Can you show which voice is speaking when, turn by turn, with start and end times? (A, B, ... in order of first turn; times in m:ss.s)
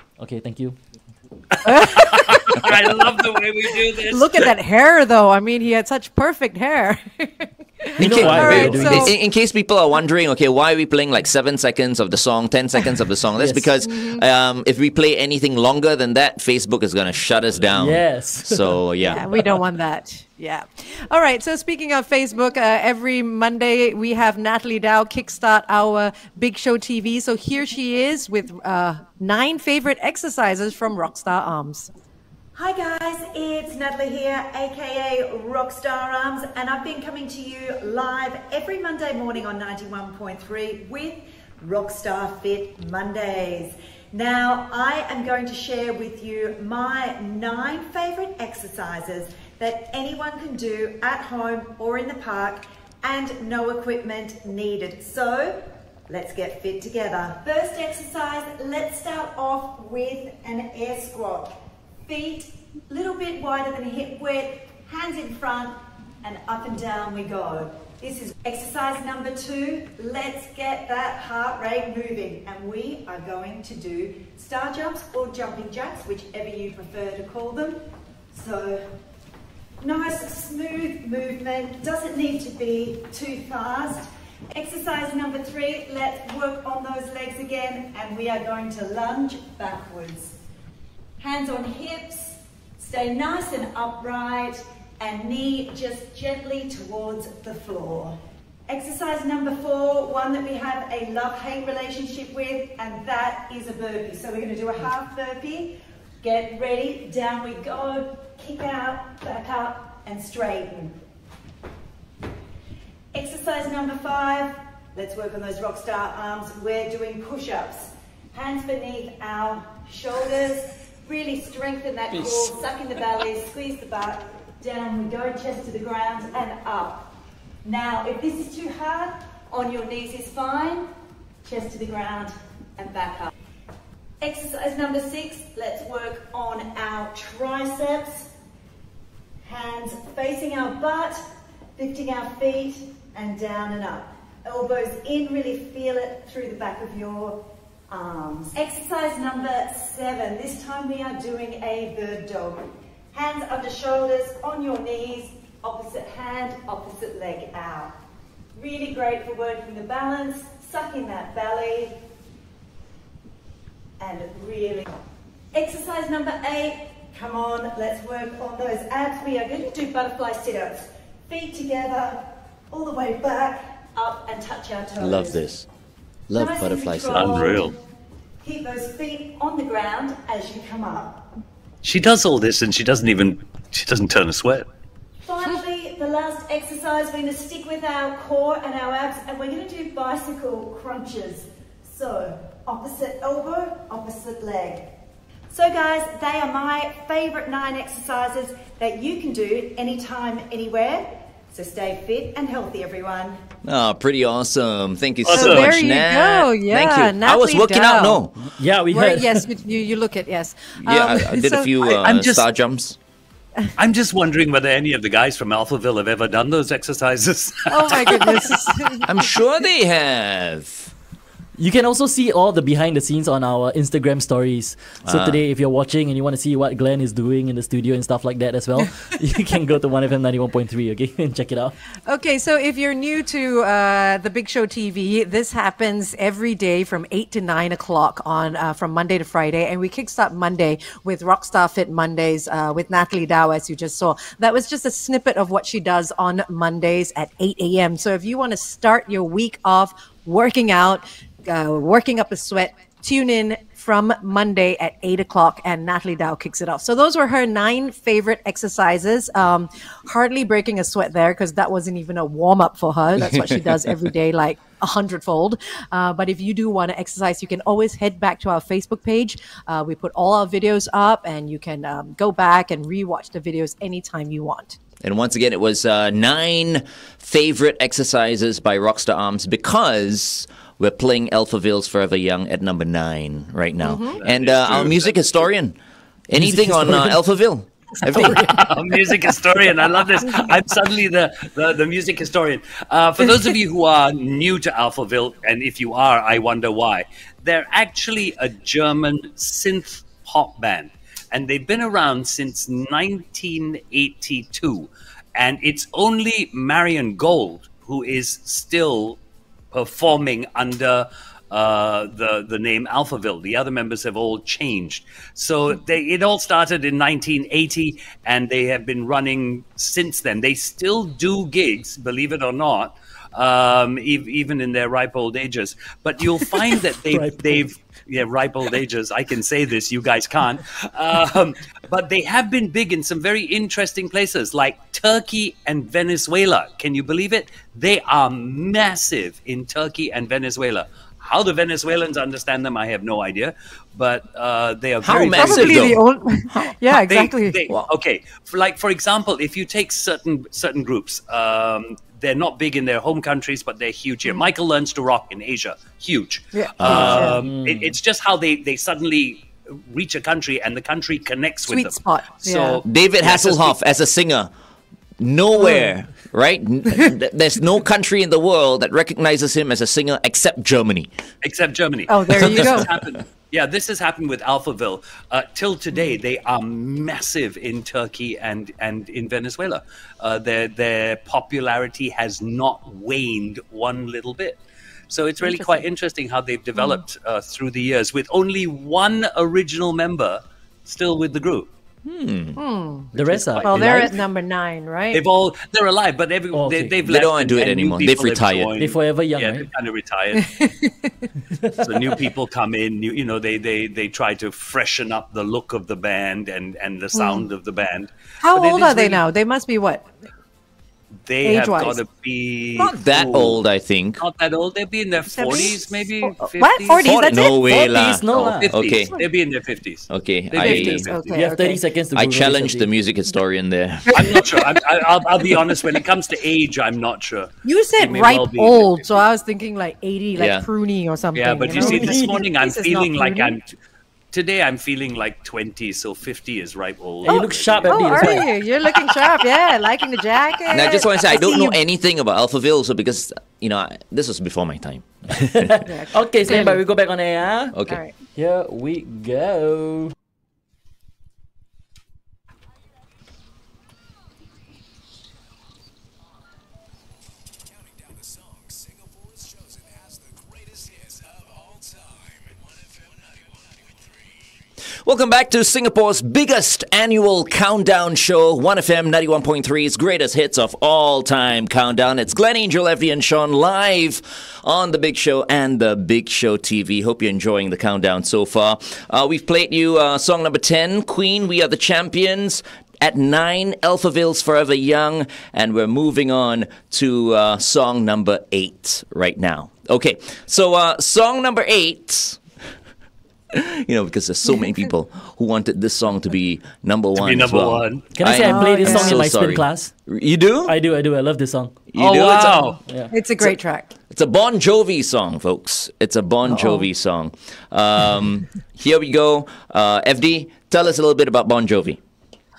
0:00.2-0:00.8 A
0:01.6-0:02.6 B
0:01.9-0:04.5 C
0:04.1-0:09.1 B
0:08.0-0:09.1 A
0:08.0-0:19.2 D
0:13.4-0:13.7 A
0:13.8-0:14.2 B
0:17.8-0:18.8 A
0:19.1-0:31.9 B
0:32.5-1:19.0 E
1:19.8-1:30.4 E
1:31.2-1:51.0 E
1:53.1-2:07.1 E
2:07.6-2:10.9 E
2:11.4-2:13.3 E
2:14.2-2:18.3 E
2:19.4-2:21.2 E
2:21.8-2:38.0 E
2:38.6-2:42.0 E
2:44.0-2:45.0 E
2:45.5-2:55.4 E
2:55.0-2:55.7 D
2:56.3-2:57.6 D
2:56.3-2:57.8 E
2:57.1-2:57.7 C
2:58.4-3:01.3 E
3:01.8-3:04.7 C
3:05.2-3:14.9 E
3:15.5-3:23.4 E
3:23.6-3:28.4 D
3:25.3-3:25.7 C
3:25.3-3:28.2 B
3:28.6-3:29.4 A
3:28.9-3:31.7 B
3:30.8-3:33.0 D
3:31.9-3:32.5 C
3:33.8-3:38.7 C
3:37.7-3:39.1 B
3:39.1-3:40.9 D
3:41.6-3:51.8 A
3:45.1-3:45.4 D
3:52.1-4:34.8 B
4:35.0-4:45.8 D
4:43.8-4:44.2 B
4:44.2-4:45.3 C
4:46.3-4:48.5 D
4:46.4-4:47.2 A
4:48.1-4:48.5 A
4:48.5-5:09.2 C
5:09.7-5:46.0 C
5:27.1-5:27.7 A
5:45.0-5:46.7 D
5:45.4-5:47.6 B
5:46.9-6:03.8 C
5:56.5-5:57.4 B
5:56.8-5:57.4 D
5:57.3-5:57.9 A
6:01.7-6:02.8 B
6:02.9-6:04.5 D
6:05.2-6:11.1 D
6:05.6-6:05.9 B
6:11.4-6:24.6 C
6:12.1-6:12.9 B
6:25.1-6:31.7 C
6:25.4-6:25.8 B
6:26.8-6:27.0 B
6:32.0-6:32.6 D
6:32.6-6:35.2 B
6:33.1-6:34.1 A
6:33.4-6:34.1 C
6:35.1-6:40.5 C
6:36.5-6:37.0 A
6:37.0-6:38.8 D
6:38.8-6:39.7 A
6:40.4-6:41.1 B
6:41.8-6:49.2 C
6:47.2-6:47.5 B
6:48.4-6:50.1 B
6:51.2-6:53.6 C
6:51.4-6:52.0 B
6:52.8-6:54.2 D
6:54.2-6:57.1 C
6:55.3-6:58.0 B
6:57.0-6:59.1 D
6:57.5-6:58.8 A
6:58.3-7:01.4 C
7:00.1-7:01.1 D
7:00.6-7:01.8 B
7:01.3-7:02.9 A
7:02.2-7:04.3 D
7:04.2-7:08.9 C
7:07.6-7:13.6 B
7:10.4-7:10.7 D
7:11.4-7:13.7 C
7:11.8-7:12.4 A
7:14.3-7:18.5 C
7:17.2-7:18.5 A
7:17.3-7:21.8 B
7:20.7-7:25.7 D
7:25.4-7:27.8 A
7:25.9-7:26.8 B
7:27.7-7:28.0 D
7:28.4-7:30.1 A
7:45.0-8:12.4 D
8:13.5-8:20.8 D
8:17.2-8:18.1 C
8:18.2-8:19.9 A
8:18.4-8:19.2 B
8:20.7-8:21.8 A
8:21.9-8:22.8 D
8:22.0-8:22.8 C
8:23.1-8:23.9 B
8:24.1-8:32.0 D
8:26.5-8:26.8 B